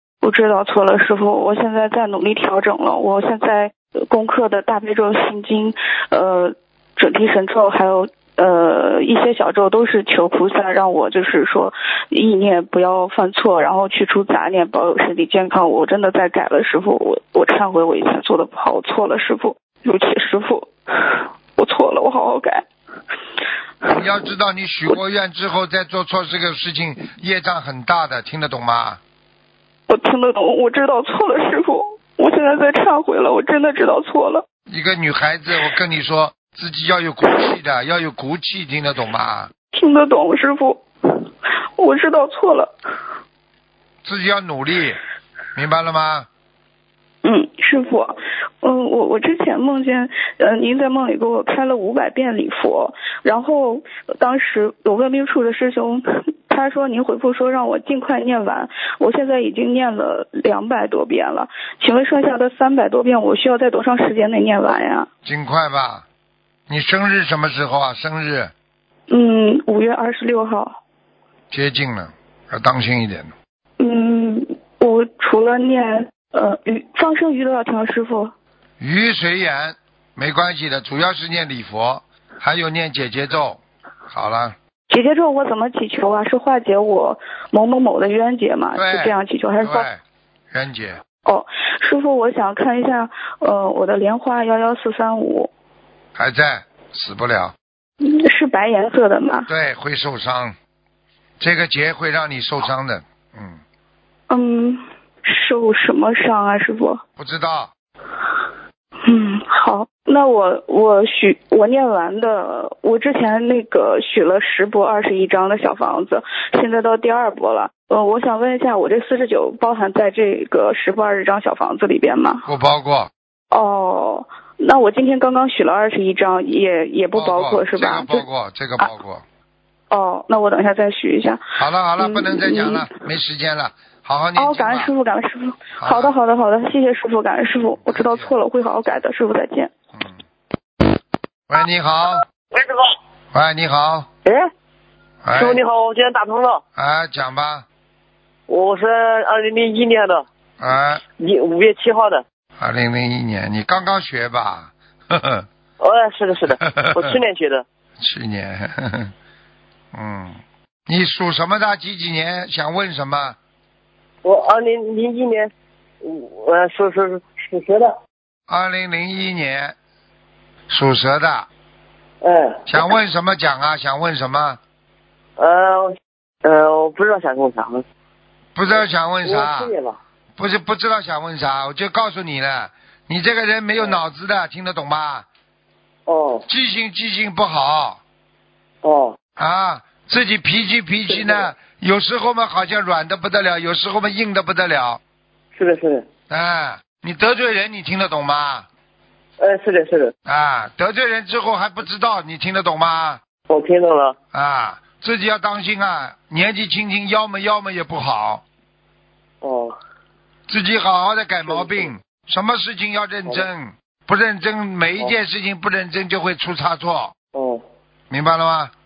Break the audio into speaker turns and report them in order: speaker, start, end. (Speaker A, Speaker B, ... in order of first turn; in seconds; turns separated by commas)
Speaker A: 0.2-22.6, Speaker B: 23.9-29.0, Speaker A: 29.9-34.5, Speaker B: 34.7-39.5, Speaker A: 39.7-41.2, Speaker A: 41.8-42.7, Speaker B: 44.0-45.0, Speaker B: 45.5-46.3, Speaker A: 47.2-65.1, Speaker B: 65.2-66.0, Speaker B: 66.7-68.5, Speaker A: 69.1-70.8, Speaker B: 71.5-73.3, Speaker A: 73.8-78.3, Speaker B: 78.8-84.5, Speaker A: 84.9-89.9, Speaker B: 88.7-90.0, Speaker B: 90.5-91.0, Speaker A: 91.2-95.5, Speaker B: 96.2-97.5, Speaker A: 98.0-99.5, Speaker B: 99.5-100.5, Speaker B: 101.4-103.6, Speaker A: 104.3-107.0, Speaker B: 107.2-107.7, Speaker A: 109.0-122.5, Speaker B: 122.4-123.1, Speaker A: 123.5-128.2, Speaker B: 127.1-129.2, Speaker A: 129.9-131.4, Speaker B: 131.6-134.9, Speaker A: 132.0-132.9, Speaker A: 134.3-139.7, Speaker B: 135.8-136.1, Speaker B: 137.6-138.3, Speaker B: 141.5-142.2, Speaker C: 142.5-142.8, Speaker B: 143.3-144.1, Speaker B: 145.2-145.6, Speaker C: 145.3-146.6, Speaker B: 146.8-147.7, Speaker C: 148.5-150.2, Speaker B: 150.6-151.0, Speaker C: 151.2-152.2, Speaker B: 152.6-155.5, Speaker C: 155.8-157.6, Speaker B: 156.5-157.2, Speaker B: 158.0-159.1, Speaker B: 159.9-163.4, Speaker C: 164.2-168.0, Speaker B: 168.5-169.8, Speaker B: 170.7-171.5, Speaker C: 172.2-172.6, Speaker B: 172.7-174.6, Speaker C: 175.4-175.9, Speaker C: 176.4-177.8, Speaker B: 178.6-179.7, Speaker C: 178.8-180.0, Speaker B: 180.4-185.2, Speaker C: 186.1-186.4, Speaker B: 186.5-188.0, Speaker C: 188.8-189.2, Speaker B: 189.4-195.0, Speaker C: 191.1-191.4, Speaker C: 195.5-196.1, Speaker B: 196.3-198.7, Speaker C: 199.4-200.1, Speaker B: 200.2-203.2, Speaker C: 203.5-204.2, Speaker B: 204.3-208.4, Speaker C: 209.4-209.7, Speaker B: 210.5-217.1, Speaker C: 211.5-211.9, Speaker C: 217.3-217.6, Speaker B: 218.1-218.7